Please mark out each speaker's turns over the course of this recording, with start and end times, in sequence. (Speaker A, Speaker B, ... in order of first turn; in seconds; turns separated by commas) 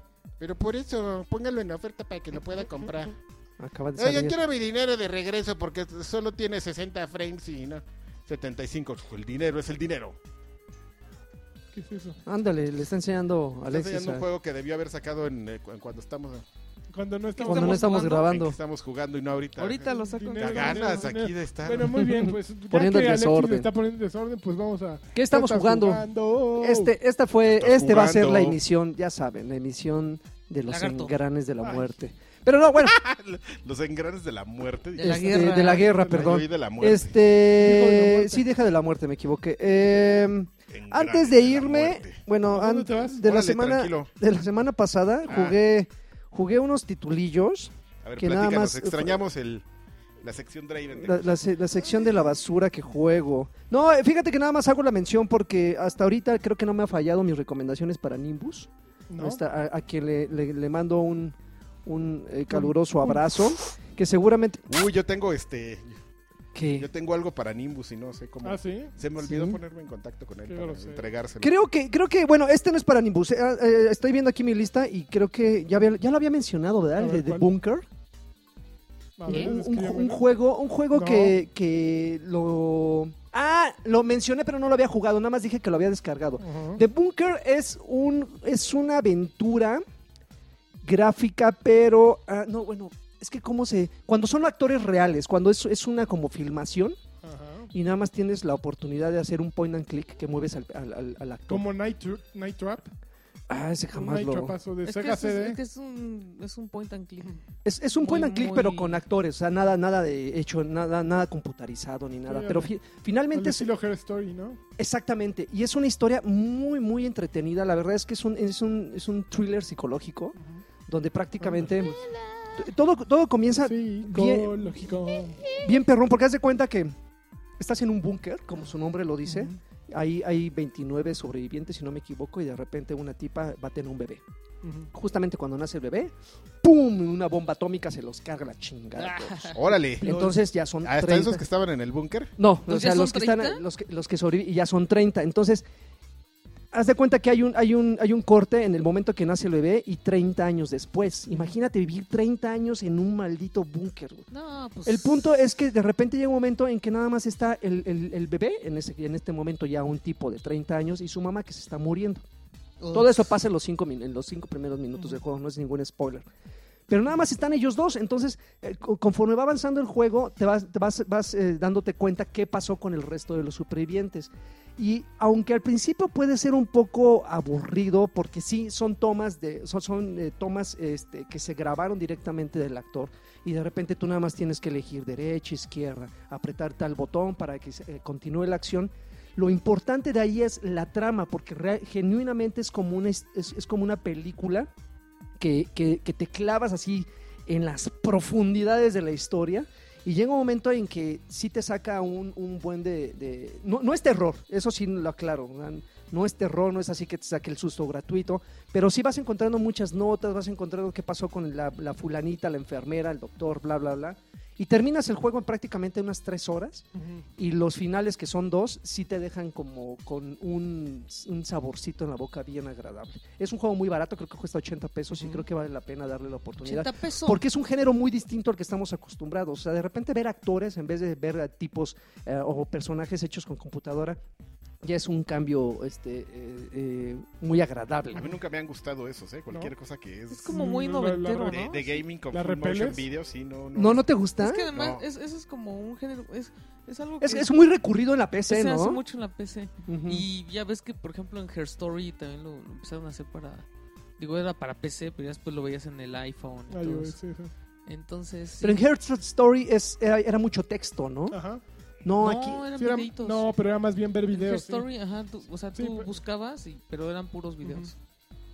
Speaker A: 0.4-3.2, Speaker B: 3.6-4.4, Speaker A: 4.0-10.2, Speaker C: 11.7-12.2, Speaker B: 12.2-14.2, Speaker A: 13.7-16.4, Speaker C: 16.9-17.9, Speaker D: 17.4-18.3, Speaker B: 17.4-18.6, Speaker A: 17.8-19.8, Speaker D: 19.6-21.1, Speaker C: 19.8-26.9, Speaker A: 20.4-22.0, Speaker B: 21.9-23.7, Speaker B: 25.1-26.0, Speaker B: 26.6-33.0, Speaker A: 27.5-28.6, Speaker D: 30.7-31.2, Speaker A: 32.8-37.2, Speaker D: 35.0-35.9, Speaker B: 35.0-49.2, Speaker C: 35.6-36.4, Speaker C: 37.5-38.5, Speaker A: 40.7-42.2, Speaker C: 42.5-43.2, Speaker A: 43.2-44.1, Speaker A: 45.3-45.6, Speaker A: 48.0-49.6, Speaker A: 50.2-51.4, Speaker B: 51.0-64.7, Speaker C: 59.1-59.4, Speaker C: 62.5-63.3, Speaker A: 64.7-66.0, Speaker B: 66.5-66.9, Speaker A: 66.7-71.5, Speaker C: 68.4-68.9, Speaker B: 69.2-69.6, Speaker C: 70.5-71.1, Speaker B: 71.4-77.9, Speaker C: 77.0-77.5, Speaker C: 79.2-80.2, Speaker B: 79.3-89.8, Speaker C: 80.9-81.3, Speaker C: 86.4-86.8, Speaker B: 90.8-97.0, Speaker C: 97.2-97.7, Speaker B: 97.7-101.7, Speaker C: 101.5-102.9, Speaker B: 103.5-104.5, Speaker C: 103.9-105.6, Speaker D: 104.8-107.4, Speaker B: 107.6-113.7, Speaker D: 108.0-109.0, Speaker C: 112.2-112.7, Speaker C: 113.3-114.6, Speaker B: 114.8-122.0, Speaker C: 120.4-120.6, Speaker C: 121.4-121.8, Speaker B: 122.5-124.8, Speaker C: 123.6-125.5, Speaker B: 125.5-126.9, Speaker B: 127.6-134.2, Speaker C: 129.2-129.6, Speaker C: 134.6-134.9, Speaker B: 134.9-141.4, Speaker D: 138.9-139.6, Speaker A: 139.5-142.3, Speaker B: 142.4-145.6, Speaker D: 142.7-143.6, Speaker B: 146.7-154.3, Speaker D: 154.3-155.2, Speaker B: 154.8-162.2, Speaker D: 162.8-163.2, Speaker B: 162.9-166.2, Speaker B: 166.9-194.7, Speaker B: 195.4-216.8, Speaker C: 216.9-217.2, Speaker B: 217.4-234.2, Speaker C: 225.1-225.4, Speaker D: 226.6-227.4, Speaker B: 234.8-238.3, Speaker A: 238.1-240.5, Speaker D: 240.3-241.8, Speaker C: 240.5-243.0, Speaker A: 241.5-244.0, Speaker B: 243.7-244.7, Speaker D: 244.4-247.5, Speaker A: 244.7-245.0, Speaker B: 247.2-249.0, Speaker D: 248.5-253.6, Speaker B: 249.8-250.2, Speaker D: 254.2-257.2, Speaker C: 256.7-257.5, Speaker D: 257.9-258.8, Speaker B: 258.6-261.4, Speaker C: 261.3-261.6, Speaker B: 262.0-262.6, Speaker D: 262.2-263.5, Speaker C: 262.8-264.9, Speaker D: 264.3-267.9, Speaker C: 265.8-266.1, Speaker C: 267.6-267.9